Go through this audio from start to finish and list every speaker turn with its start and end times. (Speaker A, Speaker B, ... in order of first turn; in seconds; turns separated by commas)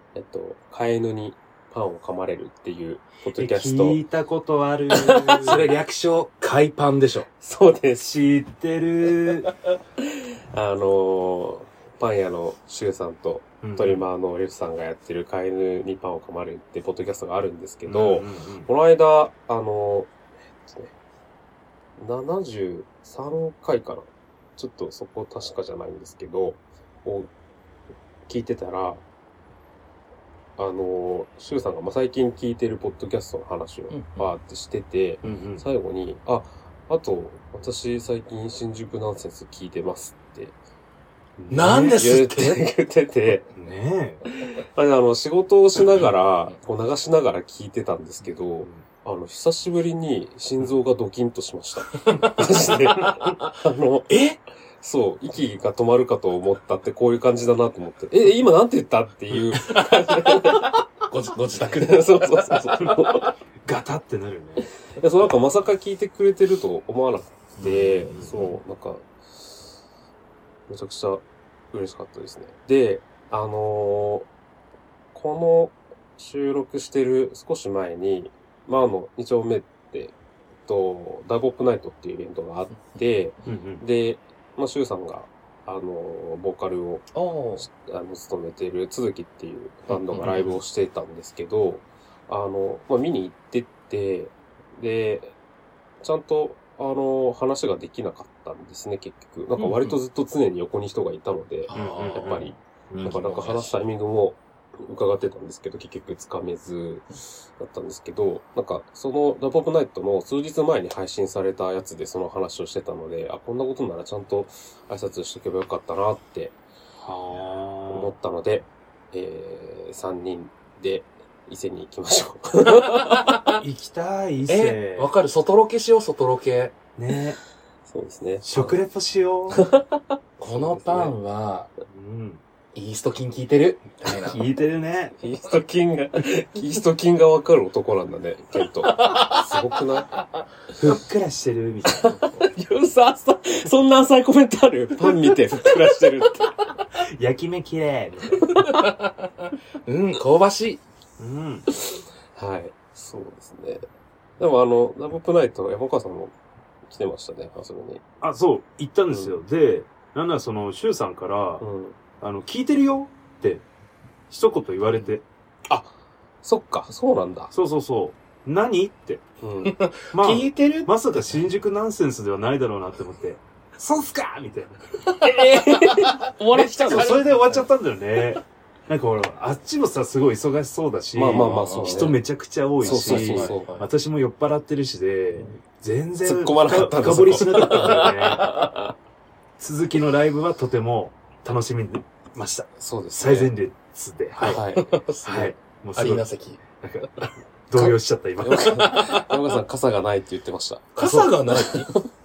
Speaker A: 0.1-4.0, Speaker B: 3.3-5.7, Speaker A: 4.9-5.5, Speaker C: 5.4-7.3, Speaker A: 7.4-8.1, Speaker B: 8.0-9.5, Speaker A: 10.0-20.9, Speaker B: 13.6-14.1, Speaker B: 17.8-18.7, Speaker A: 22.0-27.3, Speaker A: 28.3-29.0, Speaker A: 30.6-40.5, Speaker C: 33.9-34.3, Speaker B: 35.2-35.6, Speaker B: 41.4-42.0, Speaker C: 41.5-42.6, Speaker A: 41.7-43.5, Speaker B: 43.4-44.2, Speaker A: 44.2-54.2, Speaker C: 51.9-53.5, Speaker C: 54.1-54.4, Speaker A: 54.8-60.8, Speaker C: 59.6-63.1, Speaker A: 61.6-63.3, Speaker B: 63.6-64.7, Speaker A: 64.9-69.6, Speaker C: 67.6-68.0, Speaker B: 67.6-68.6, Speaker A: 70.7-74.3, Speaker A: 75.1-80.1, Speaker A: 80.7-95.3, Speaker B: 83.4-83.8, Speaker C: 87.1-87.7, Speaker B: 90.2-90.5, Speaker A: 96.0-116.5, Speaker C: 99.6-100.0, Speaker C: 101.7-103.7, Speaker B: 101.7-103.2, Speaker B: 117.0-118.1, Speaker A: 117.9-123.4, Speaker C: 122.7-123.6, Speaker B: 123.6-125.1, Speaker C: 124.5-126.8, Speaker B: 127.0-127.4, Speaker A: 127.8-128.8, Speaker B: 128.4-129.6, Speaker A: 129.5-131.1, Speaker C: 130.4-131.7, Speaker B: 131.9-132.4, Speaker C: 132.7-134.4, Speaker B: 134.1-135.2, Speaker A: 135.2-140.1, Speaker C: 138.8-139.6, Speaker B: 140.8-142.2, Speaker A: 141.9-146.5, Speaker B: 146.9-148.6, Speaker A: 148.4-148.8, Speaker C: 148.6-149.1, Speaker C: 149.8-150.8, Speaker B: 151.2-151.7, Speaker A: 151.7-153.9, Speaker A: 154.4-156.3, Speaker A: 156.9-158.0, Speaker B: 158.2-161.6, Speaker A: 159.1-159.4, Speaker A: 161.6-162.0, Speaker B: 162.2-163.7, Speaker B: 164.3-165.2, Speaker A: 165.7-165.9, Speaker A: 166.4-167.5, Speaker B: 167.5-169.2, Speaker A: 169.4-169.8, Speaker C: 169.6-171.0, Speaker B: 170.1-174.9, Speaker C: 175.0-177.7, Speaker A: 175.2-177.3, Speaker B: 176.8-188.5, Speaker A: 181.1-182.2, Speaker C: 181.4-182.1, Speaker A: 182.8-183.7, Speaker C: 182.8-183.9, Speaker A: 186.2-188.9, Speaker C: 187.8-188.5, Speaker B: 189.6-194.6, Speaker A: 192.8-193.5, Speaker C: 194.4-196.6, Speaker A: 194.4-194.9, Speaker B: 195.2-196.2, Speaker B: 196.8-199.1, Speaker A: 197.8-202.1, Speaker C: 198.8-199.3, Speaker C: 200.9-201.9